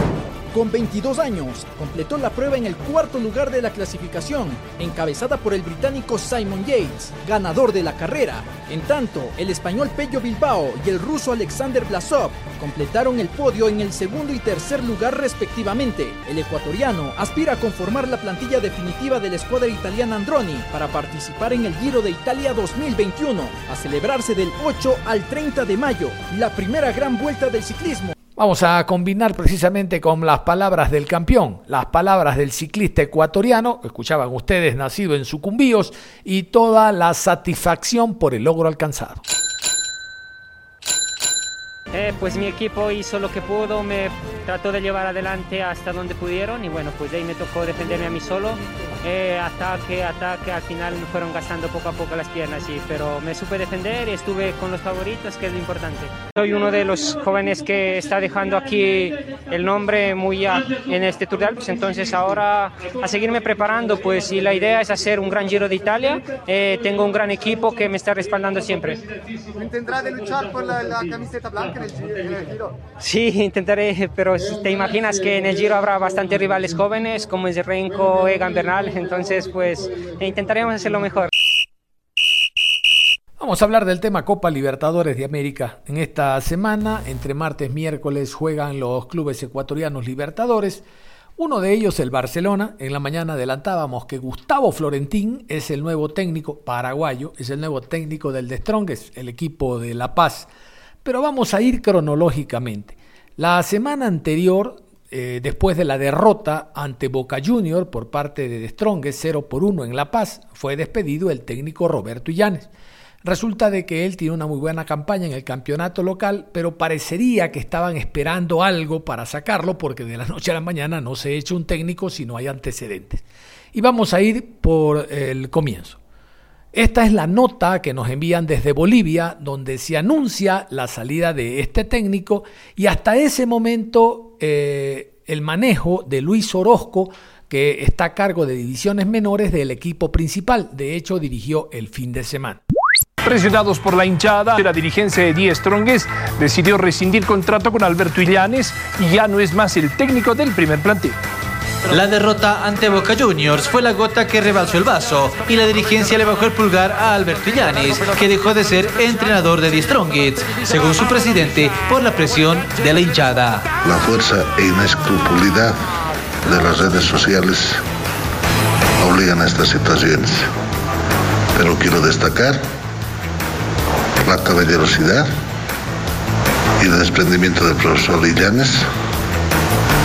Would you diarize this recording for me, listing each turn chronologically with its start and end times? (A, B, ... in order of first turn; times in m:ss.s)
0:00.5-0:28.1 A
0:28.4-0:39.2 B
0:41.9-1:09.0 C
1:09.6-1:12.8 D
1:13.0-1:21.3 C
1:23.4-1:30.8 B
1:31.4-1:40.5 B
1:41.0-1:52.7 B
1:53.2-2:06.0 B
2:06.7-2:22.6 B
2:23.2-2:31.2 E
2:31.9-2:43.7 F
2:43.8-2:45.7 G
2:46.4-2:47.8 G
2:49.0-2:50.5 G
2:51.6-2:52.6 G
2:54.2-2:55.3 G
2:56.8-2:58.8 G